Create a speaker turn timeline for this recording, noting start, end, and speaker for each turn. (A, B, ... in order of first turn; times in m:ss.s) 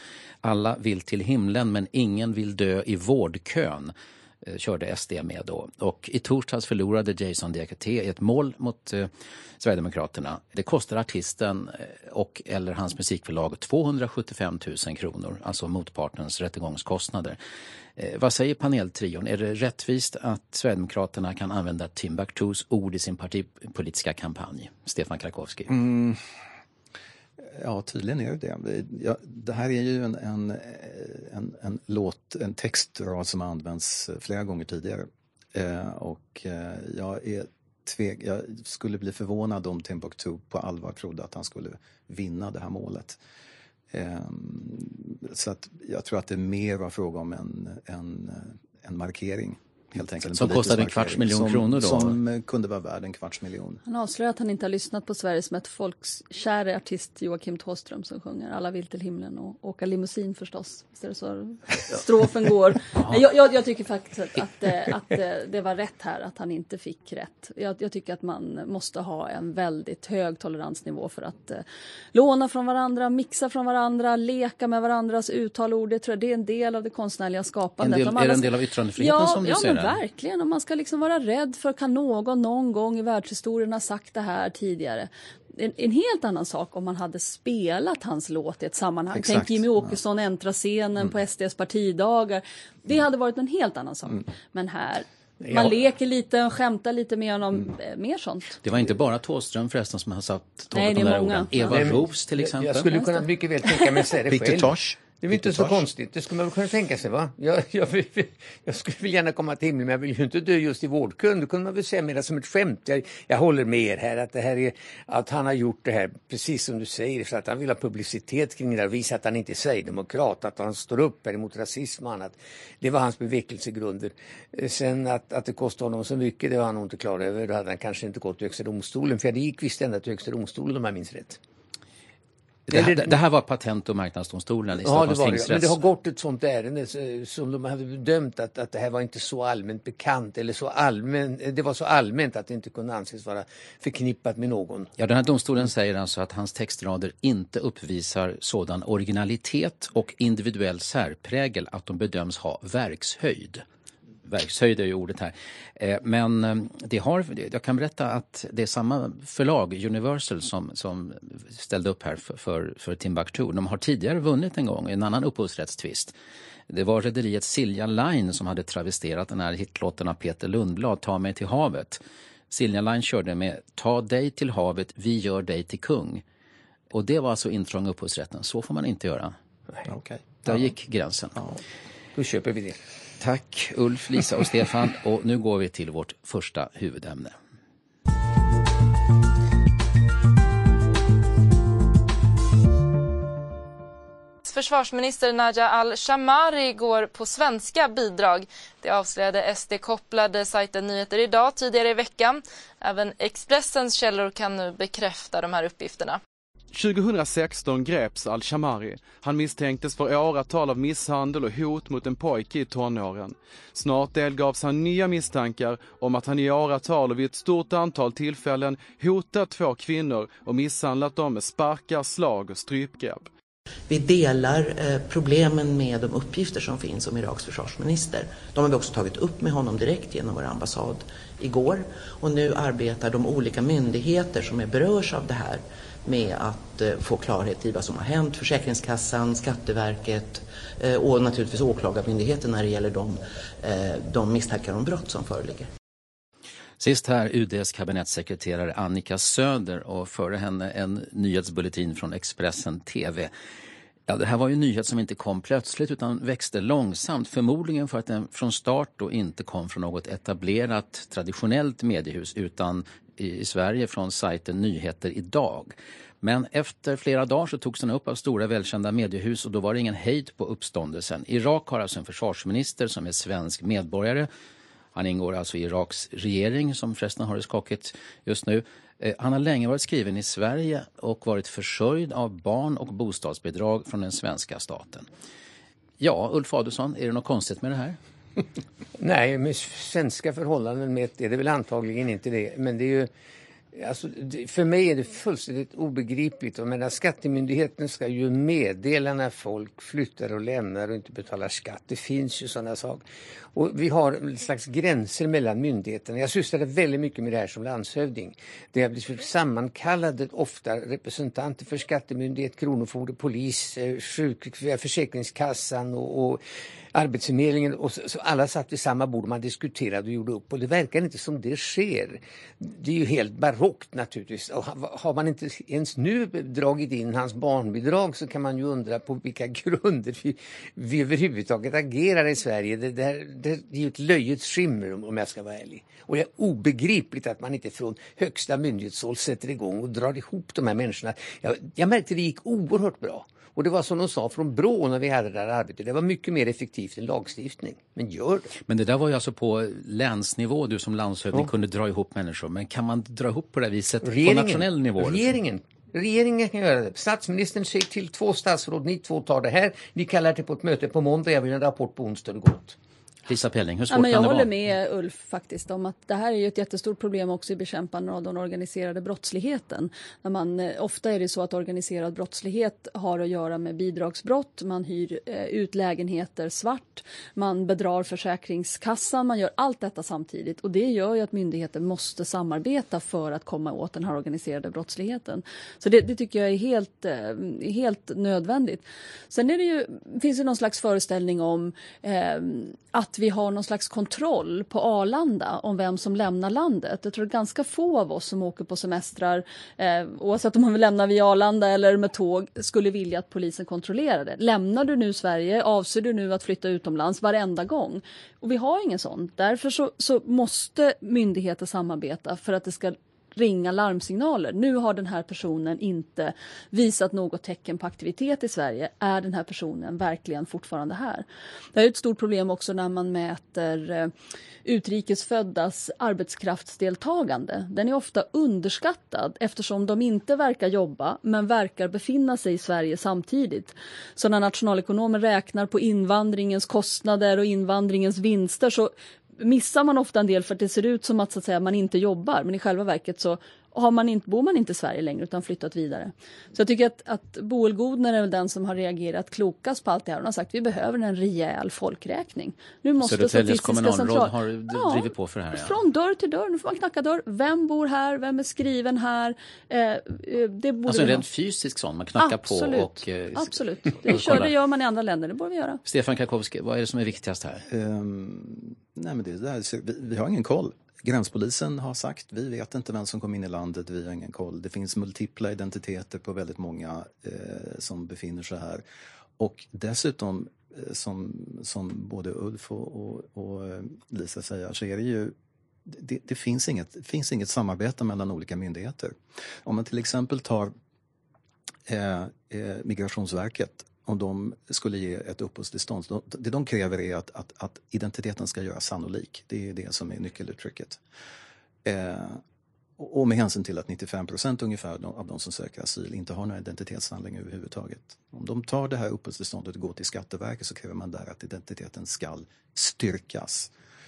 0:00.4-0:17.4 A
0:18.0-0:25.7 A
0:25.7-0:26.2 B
0:27.4-0:43.2 B
0:43.9-0:53.8 B
0:50.2-0:52.2 A
0:53.8-1:38.6 C
1:17.8-1:20.0 A
1:29.1-1:30.0 B
1:35.4-1:35.7 D
1:38.6-1:43.1 A
1:40.7-1:41.8 C
1:41.6-2:11.4 D
1:44.3-1:45.9 B
2:12.7-2:15.8 A
2:12.7-2:13.1 D
2:14.8-2:24.9 D
2:25.0-2:33.6 A
2:34.2-2:46.1 A
2:46.7-2:56.2 A
2:56.9-2:59.3 A
2:59.9-3:00.7 B
3:00.4-3:01.4 A
3:02.1-3:02.8 D
3:03.2-3:07.3 A
3:14.4-3:26.2 E
3:26.7-3:43.3 F
3:43.9-4:05.7 G
4:06.8-4:13.3 A
4:14.1-4:34.3 A
4:34.9-4:45.1 A
4:46.0-4:48.0 A
4:49.0-4:53.1 D
4:53.7-5:03.0 D
5:03.5-5:16.4 D
5:16.9-5:48.5 D
5:48.7-5:55.3 A
5:54.0-6:02.7 D
6:03.2-6:04.5 A
6:03.9-7:04.1 C
7:04.6-7:41.2 C
7:33.0-7:35.7 A
7:40.8-7:44.5 A
7:42.2-7:45.8 C
7:45.8-7:47.6 A
7:47.7-7:58.8 B
7:59.4-8:05.3 B
8:05.8-8:10.7 B
8:11.9-8:21.0 B
8:21.8-8:22.4 B
8:23.0-8:33.7 B